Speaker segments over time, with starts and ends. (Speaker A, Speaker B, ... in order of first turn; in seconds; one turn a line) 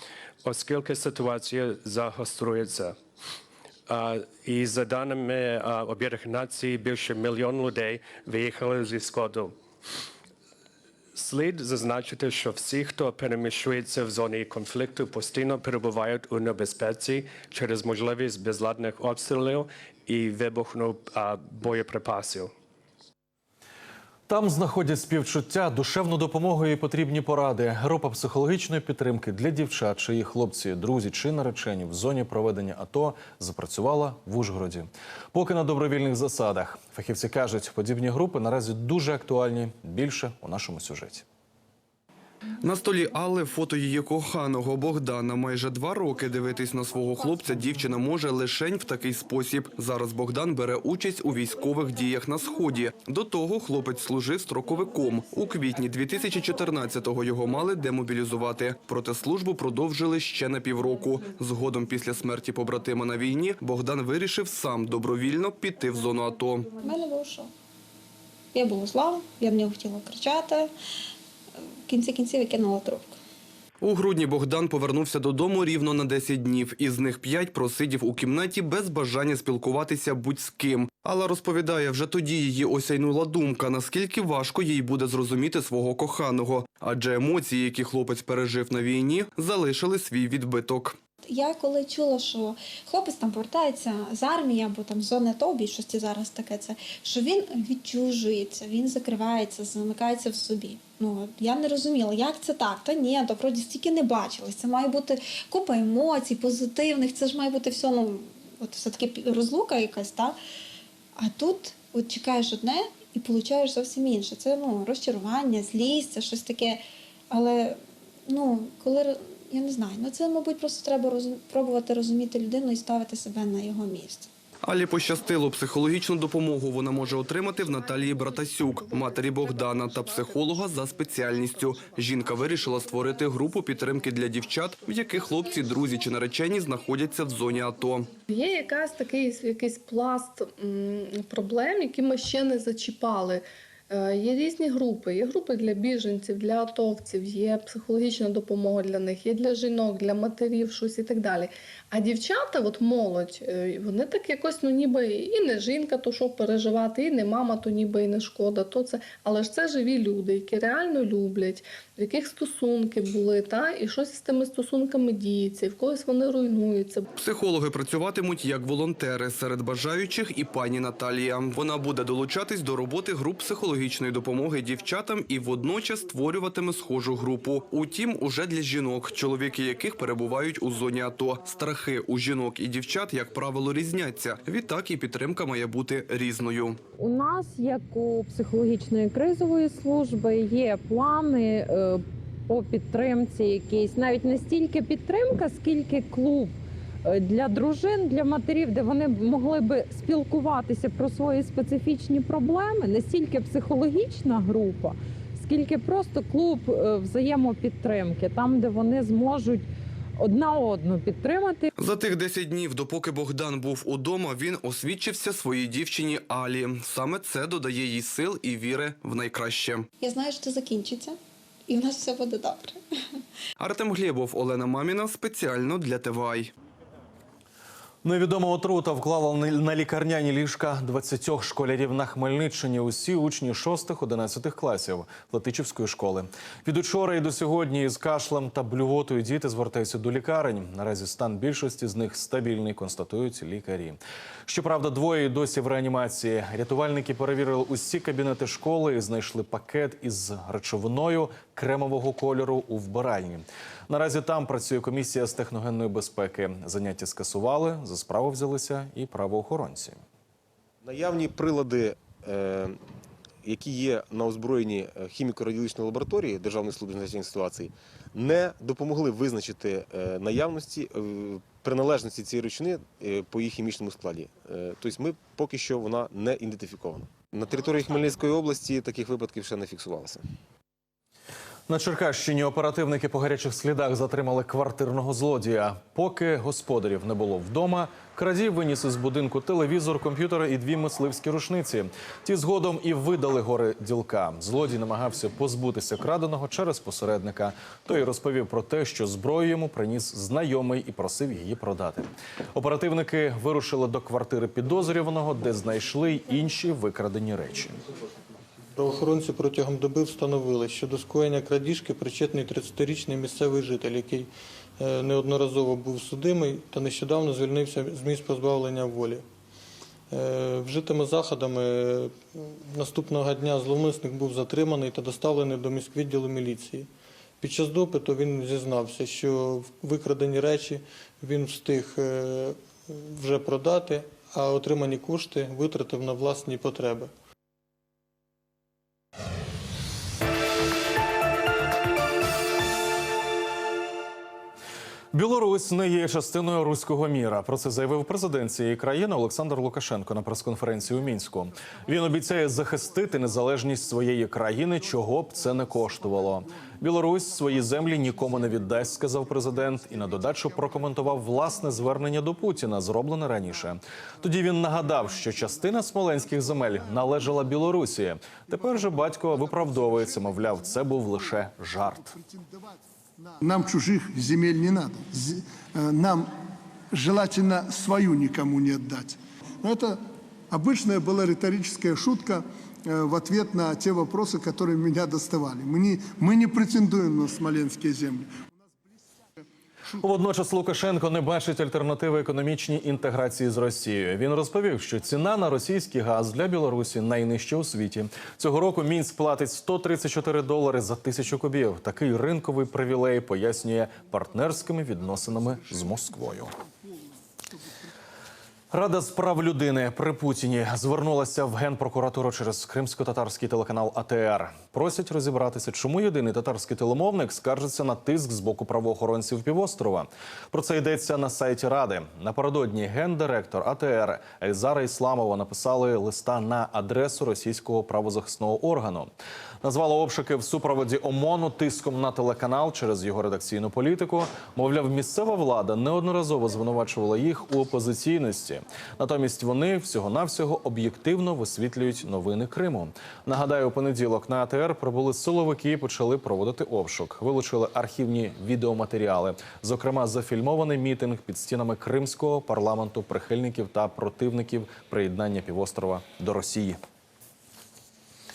Speaker A: 0.4-3.0
Speaker A: 3.9-9.5
Speaker A: 11.2-22.5
Speaker B: 24.3-41.2
Speaker C: 42.6-66.7
Speaker D: 66.8-67.5
Speaker D: 68.5-70.7
Speaker D: 71.9-73.2
Speaker C: 73.8-91.0
Speaker D: 91.3-110.4
Speaker D: 111.2-124.3
Speaker C: 124.6-138.1
Speaker E: 138.3-167.0
Speaker C: 167.1-186.8
Speaker F: 187.0-211.7
Speaker C: 211.8-219.9
Speaker D: 220.0-221.2
Speaker D: 221.7-222.8
Speaker C: 223.6-226.5
Speaker B: 228.0-260.0
Speaker G: 260.8-262.8
Speaker G: 263.4-280.2
Speaker B: 281.7-307.8
Speaker H: 308.7-319.2
Speaker H: 320.1-326.9
Speaker H: 327.4-337.1
Speaker B: 345.1-372.1
Speaker I: 355.5-356.6
Speaker I: 357.5-360.8
Speaker I: 365.2-365.5
Speaker I: 366.5-367.3
Speaker I: 368.5-371.1
Speaker I: 371.9-376.3
Speaker I: 376.9-388.3
Speaker B: 390.0-406.5
Speaker I: 405.6-407.1
Speaker B: 408.7-429.1
Speaker B: 429.6-456.8